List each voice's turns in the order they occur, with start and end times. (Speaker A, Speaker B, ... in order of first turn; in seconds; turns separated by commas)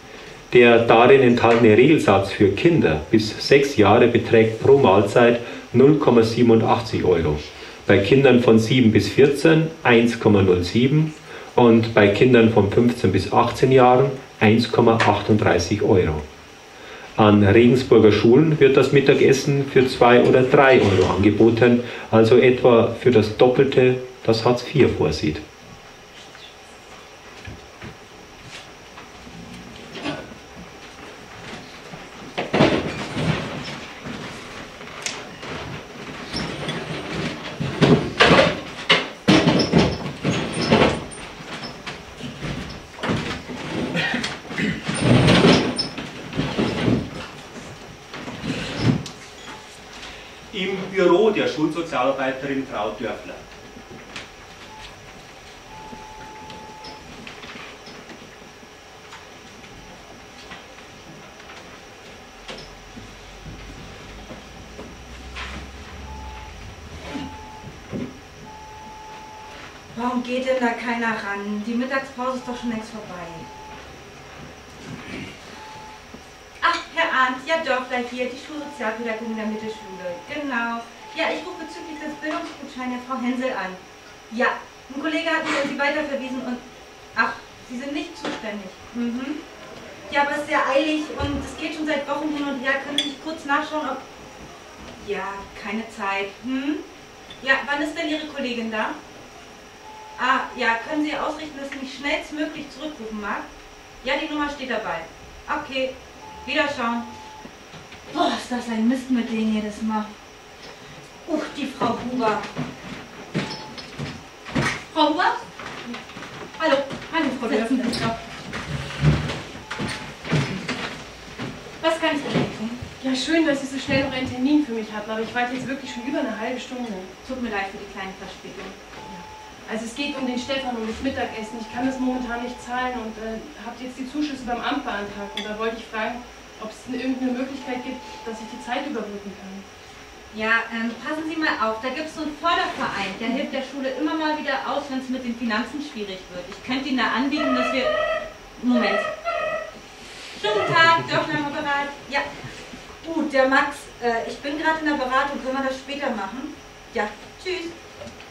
Speaker A: 0.5-16.2, Speaker A: 17.2-25.4, Speaker B: 50.5-53.4, Speaker C: 69.9-73.5, Speaker C: 76.6-86.6, Speaker C: 87.1-89.4, Speaker C: 90.1-94.0, Speaker C: 95.0-96.8, Speaker C: 97.4-99.0, Speaker C: 100.2-103.5, Speaker C: 104.0-107.1, Speaker C: 108.1-110.1, Speaker C: 111.2-112.5, Speaker C: 114.9-115.4, Speaker C: 116.6-118.2, Speaker D: 117.4-118.0, Speaker C: 121.8-122.8, Speaker D: 123.0-127.1, Speaker C: 127.2-128.8, Speaker D: 129.1-139.6, Speaker C: 140.3-147.9, Speaker C: 148.6-149.1, Speaker C: 150.3-152.2, Speaker C: 153.0-157.7